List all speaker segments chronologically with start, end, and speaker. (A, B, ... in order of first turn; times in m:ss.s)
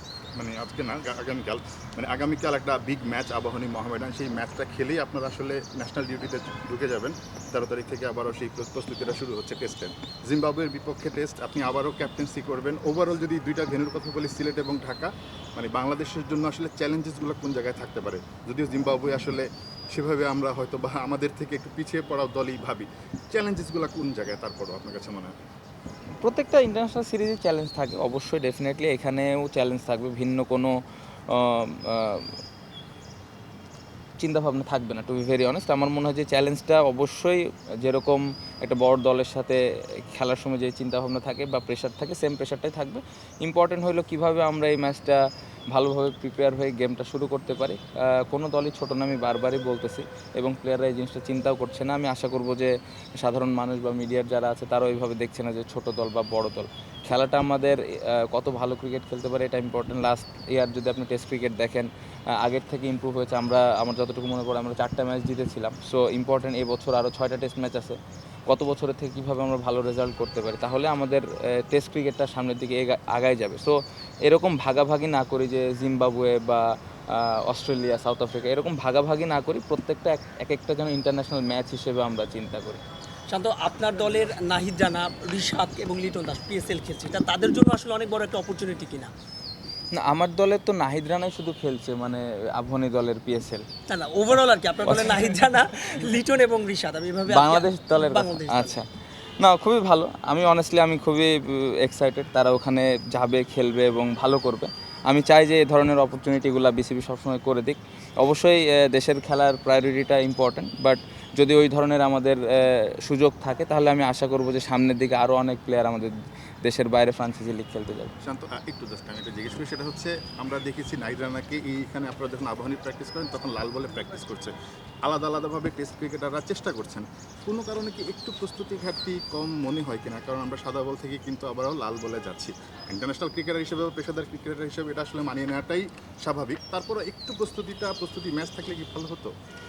0:00.4-0:25.3 A
0:26.2-0:30.8 B
0:31.3-0:32.3 B
0:34.2-1:22.8 B
1:23.3-1:29.1 C
1:29.9-1:33.6 B
1:33.9-1:38.8 C
1:34.9-1:35.4 B
1:37.3-1:38.9 B
1:39.4-1:58.1 B
1:58.2-2:04.5 A
2:05.0-2:19.3 A